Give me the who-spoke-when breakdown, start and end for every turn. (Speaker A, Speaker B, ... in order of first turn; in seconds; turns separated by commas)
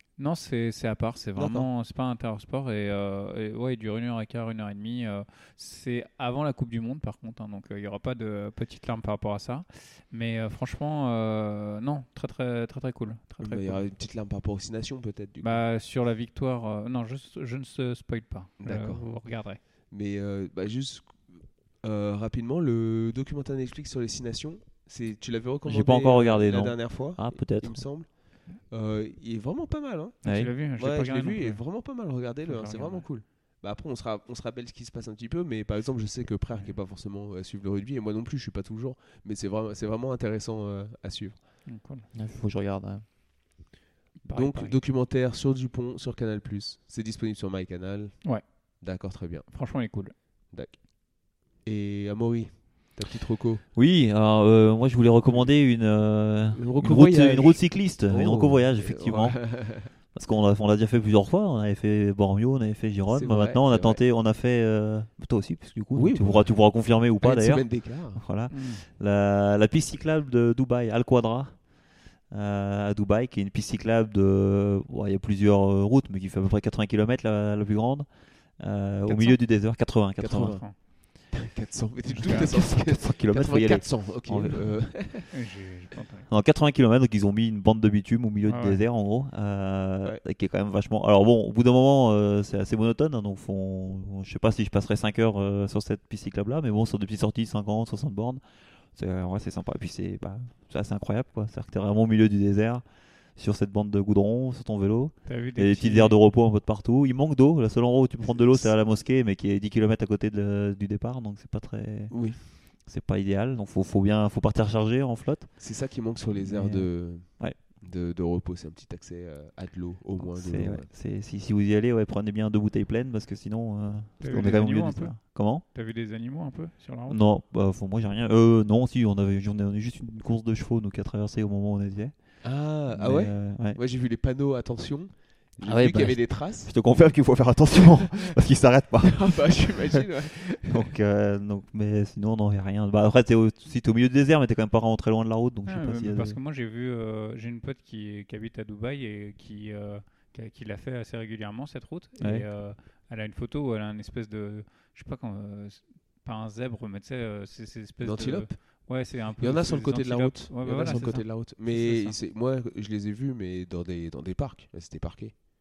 Speaker A: 0.2-13.8, Speaker B: 1.4-1.7, Speaker B: 13.4-15.6, Speaker A: 15.4-19.6, Speaker B: 18.6-19.2, Speaker B: 19.9-28.1, Speaker C: 25.7-27.8, Speaker B: 28.7-30.2, Speaker C: 30.2-30.5, Speaker A: 30.2-31.7, Speaker B: 30.8-41.4, Speaker A: 32.4-33.1, Speaker A: 41.7-42.1, Speaker C: 42.1-43.0, Speaker A: 44.2-44.8, Speaker B: 44.3-48.2, Speaker B: 48.8-49.5, Speaker A: 49.5-50.1, Speaker B: 50.5-50.8, Speaker B: 51.6-53.6, Speaker C: 53.8-71.6, Speaker B: 56.5-59.9, Speaker B: 63.1-64.0, Speaker B: 65.9-66.5, Speaker B: 67.2-68.2, Speaker A: 68.5-68.8, Speaker C: 72.3-78.1, Speaker C: 78.6-80.6, Speaker A: 79.1-79.4, Speaker B: 80.2-80.7, Speaker A: 80.4-80.7, Speaker B: 81.3-85.3, Speaker C: 82.2-84.7, Speaker A: 82.3-82.5, Speaker A: 85.3-86.3, Speaker C: 86.3-98.4, Speaker A: 88.5-88.8, Speaker C: 98.9-102.8, Speaker C: 103.4-112.1, Speaker A: 105.3-106.2, Speaker B: 108.2-108.7, Speaker B: 112.1-112.4, Speaker C: 112.9-115.5, Speaker B: 115.6-120.9, Speaker C: 116.4-117.6, Speaker C: 120.2-125.6, Speaker A: 124.2-127.2, Speaker C: 127.1-132.1, Speaker B: 132.4-136.7, Speaker C: 132.9-133.8, Speaker C: 135.6-140.0, Speaker B: 139.0-140.9, Speaker C: 140.7-146.4, Speaker A: 145.7-162.2, Speaker C: 152.2-152.5, Speaker B: 158.0-158.5, Speaker B: 159.4-165.3